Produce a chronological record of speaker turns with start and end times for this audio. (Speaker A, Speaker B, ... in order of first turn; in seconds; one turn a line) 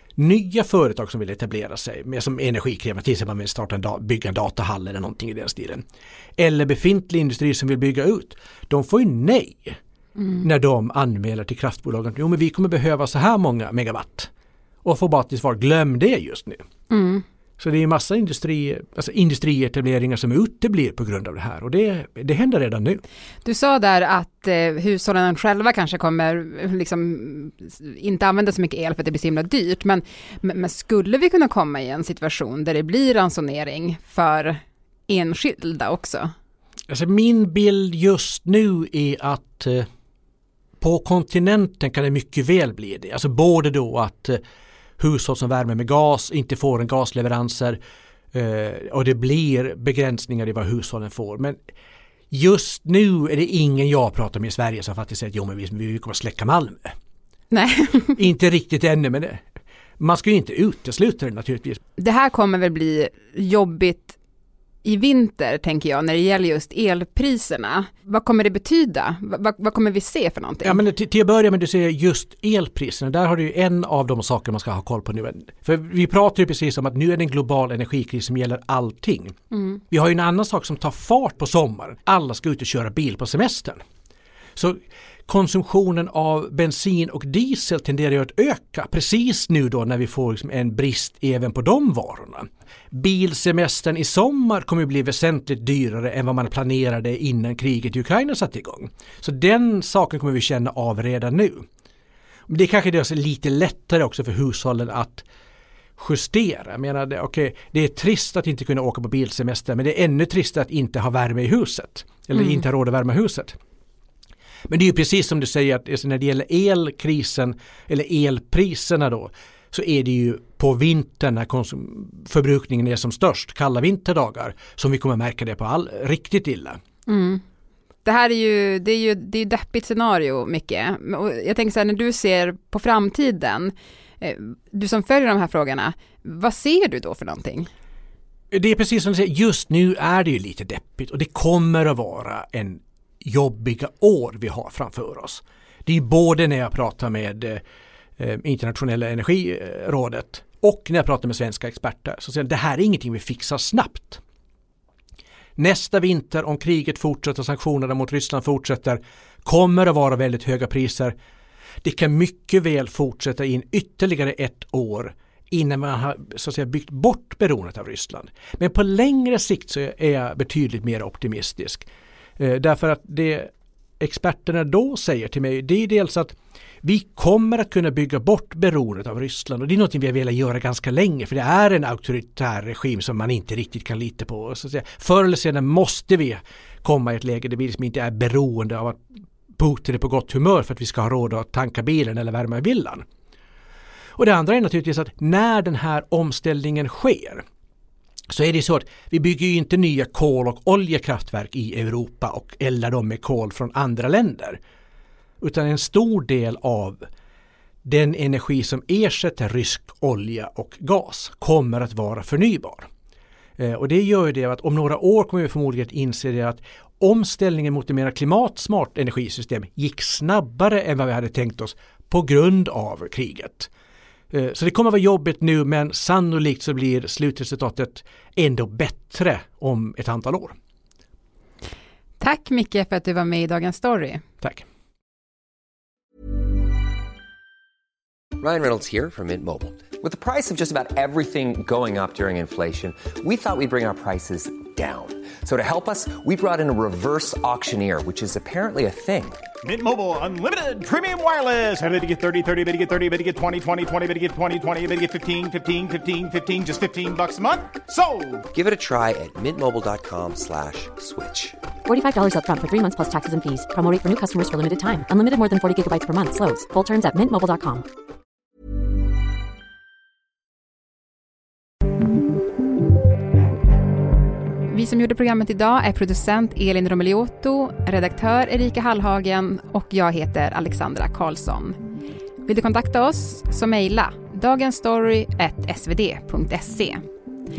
Speaker A: 0.2-5.8
Speaker A: 6.4-9.8
Speaker A: 10.4-14.3
Speaker A: 14.8-16.6
Speaker B: 16.9-17.2
Speaker A: 17.6-23.0
Speaker B: 23.4-36.3
Speaker A: 36.9-39.9
Speaker A: 40.8-44.4
Speaker A: 45.0-47.8
Speaker A: 48.3-51.6
Speaker A: 52.3-56.9
Speaker B: 57.5-58.1
Speaker A: 58.2-59.4
Speaker A: 60.0-61.8
Speaker B: 62.0-64.2
Speaker B: 64.8-70.8
Speaker A: 70.6-79.3
Speaker A: 79.9-83.8
Speaker A: 84.6-101.6
Speaker A: 102.5-105.2
Speaker A: 106.0-113.6
Speaker A: 114.7-126.8
Speaker B: 127.1-127.4
Speaker B: 128.0-137.7
Speaker A: 138.5-147.6
Speaker A: 148.2-154.2
Speaker A: 155.6-161.1
Speaker A: 161.8-171.9
Speaker A: 172.4-189.0
Speaker A: 189.6-193.0
Speaker A: 194.2-197.4
Speaker A: 198.3-204.6
Speaker A: 205.4-207.0
Speaker A: 207.8-212.9
Speaker A: 213.6-223.7
Speaker A: 224.3-230.5
Speaker B: 232.2-234.2
Speaker C: 238.4-249.4
Speaker D: 249.7-258.4
Speaker C: 258.5-261.6
Speaker E: 261.9-267.9
Speaker B: 274.7-281.8
Speaker B: 282.4-287.0